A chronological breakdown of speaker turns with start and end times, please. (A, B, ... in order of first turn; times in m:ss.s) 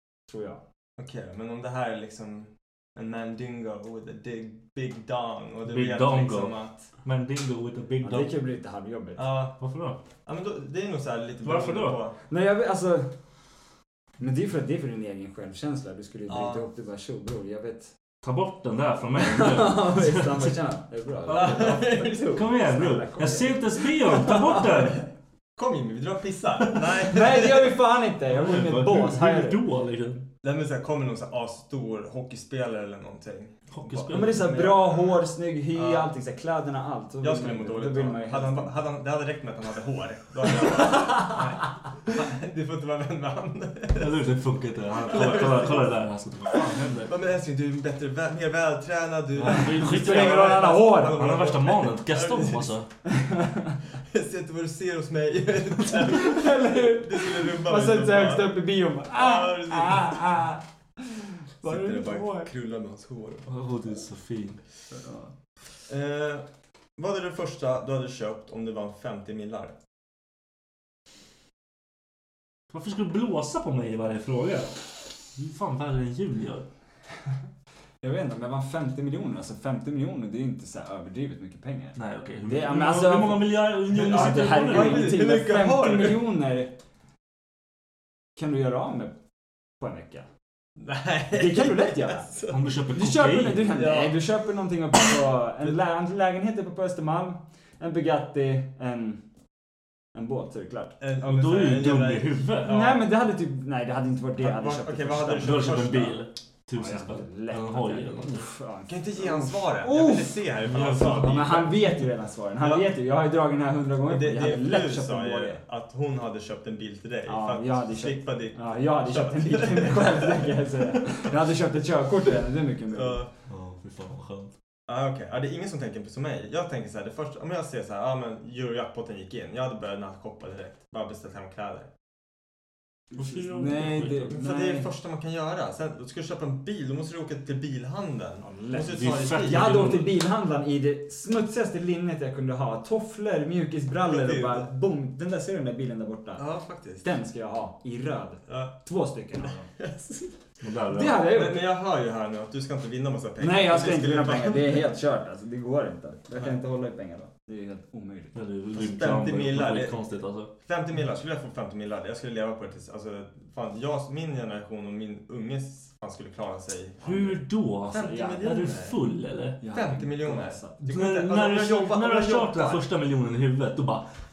0:00.3-0:00.6 A
0:01.0-0:06.8 B
0:05.7-0:08.3 C
0:08.0-0:09.3 A
0:09.2-0:09.6 B
0:09.6-0:10.0 C
0:10.2-0:12.2 B
0:11.4-0:12.0 C
0:12.3-0:13.1 A
0:14.2-0:17.9 A
0:16.3-0:16.6 B
0:18.2-0:20.6 C
0:19.2-0:24.7 A
0:21.2-0:22.4 B
0:22.3-0:25.0 C
0:25.6-0:27.7 B
0:27.0-0:29.6 A
0:28.3-0:30.3 C
0:30.4-0:35.2 B
0:33.7-0:34.6 C
0:34.1-0:38.7 A
0:35.7-0:36.1 B
0:37.2-0:44.1 B
0:40.9-0:41.4 A
0:44.0-0:47.1 C
0:45.0-0:45.9 B
0:46.5-0:52.8 B
0:49.4-0:52.9 C
0:49.5-0:51.2 A
0:53.1-0:53.8 A
0:54.0-0:58.5 B
0:56.1-1:02.5 A
0:59.1-1:00.2 B
1:01.6-1:03.5 B
1:03.5-1:04.6 C
1:04.9-1:05.3 A
1:05.8-1:06.4 B
1:07.0-1:09.7 B
1:12.7-1:16.6 C
1:18.0-1:26.7 A
1:22.0-1:25.2 C
1:23.9-1:26.2 B
1:28.4-1:29.2 A
1:29.8-1:30.2 A
1:30.8-1:32.7 B
1:31.3-1:32.4 A
1:32.5-1:33.8 C
1:32.9-1:39.2 A
1:33.7-1:34.2 B
1:40.1-1:40.9 A
1:41.0-1:43.0 B
1:41.2-1:42.8 C
1:42.6-1:45.7 A
1:44.4-1:46.2 B
1:45.4-1:48.5 C
1:46.7-1:50.4 A
1:48.9-1:51.9 B
1:50.6-1:51.4 C
1:51.0-1:55.6 A
1:52.6-1:52.9 B
1:54.1-2:01.2 B
1:57.2-2:03.2 A
2:02.9-2:03.3 B
2:03.5-2:04.5 C
2:04.9-2:11.9 B
2:13.1-2:14.9 A
2:13.2-2:14.3 C
2:14.3-2:19.8 B
2:18.4-2:26.4 A
2:18.9-2:20.2 C
2:24.0-2:24.7 B
2:26.4-2:27.0 B
2:27.0-2:29.7 A
2:28.5-2:28.7 B
2:29.8-2:30.3 B
2:30.6-2:31.3 C
2:30.9-2:31.6 A
2:31.3-2:34.8 B
2:33.4-2:38.4 A
2:38.3-2:40.5 C
2:38.7-2:40.0 B
2:40.6-2:49.0 B
2:47.0-2:49.6 C
2:49.6-2:50.8 A
2:49.7-2:52.8 B
2:50.9-2:54.1 C